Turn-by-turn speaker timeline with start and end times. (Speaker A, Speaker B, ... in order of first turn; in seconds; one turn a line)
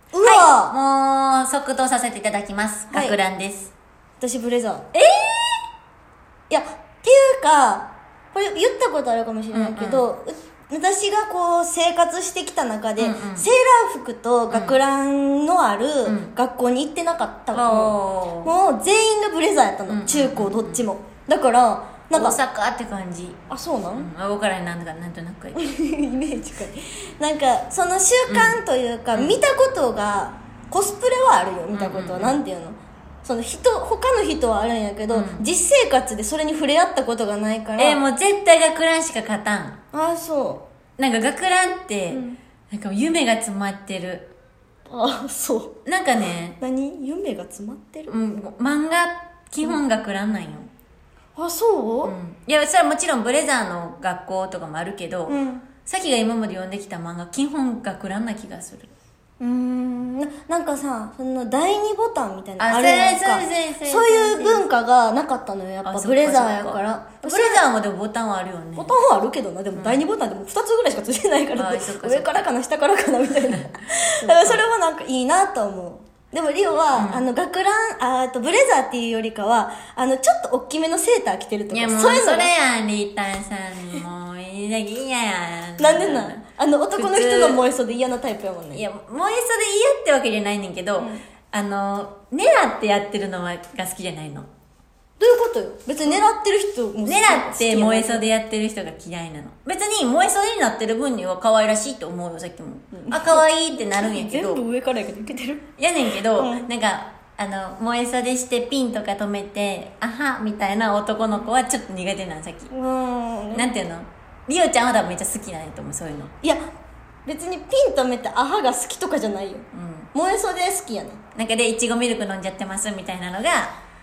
Speaker A: 0.1-0.7
Speaker B: 0.2-3.7
Speaker A: 2.9-3.1
Speaker A: 4.2-4.9
Speaker B: 4.9-5.3
Speaker A: 6.5-22.4
Speaker B: 9.5-10.1
Speaker B: 13.0-13.5
Speaker B: 14.5-14.8
Speaker B: 16.0-16.4
Speaker B: 17.5-18.5
Speaker B: 19.9-20.9
Speaker B: 22.1-23.4
Speaker A: 23.5-24.1
Speaker B: 23.9-25.7
Speaker A: 25.6-38.0
Speaker B: 28.3-28.6
Speaker B: 29.1-29.4
Speaker B: 31.7-32.4
Speaker B: 35.1-35.4
Speaker B: 37.8-39.8
Speaker A: 39.9-40.6
Speaker B: 41.0-44.3
Speaker A: 42.1-42.4
Speaker A: 44.9-45.8
Speaker B: 45.9-46.6
Speaker A: 46.6-48.1
Speaker B: 48.1-50.7
Speaker A: 51.4-52.1
Speaker B: 52.0-58.9
Speaker A: 55.3-55.6
Speaker A: 59.4-67.6
Speaker B: 62.6-64.6
Speaker B: 65.8-68.9
Speaker A: 68.8-82.5
Speaker B: 69.7-70.0
Speaker B: 71.5-72.5
Speaker B: 74.2-74.6
Speaker B: 76.9-77.2
Speaker B: 81.7-87.6
Speaker A: 85.8-88.8
Speaker B: 88.7-94.5
Speaker A: 91.0-91.2
Speaker A: 95.2-98.3
Speaker B: 97.0-104.6
Speaker A: 102.9-105.7
Speaker B: 105.8-112.7
Speaker A: 106.3-106.7
Speaker A: 112.7-113.7
Speaker B: 113.5-116.3
Speaker A: 117.2-121.2
Speaker B: 119.7-120.1
Speaker B: 121.3-123.7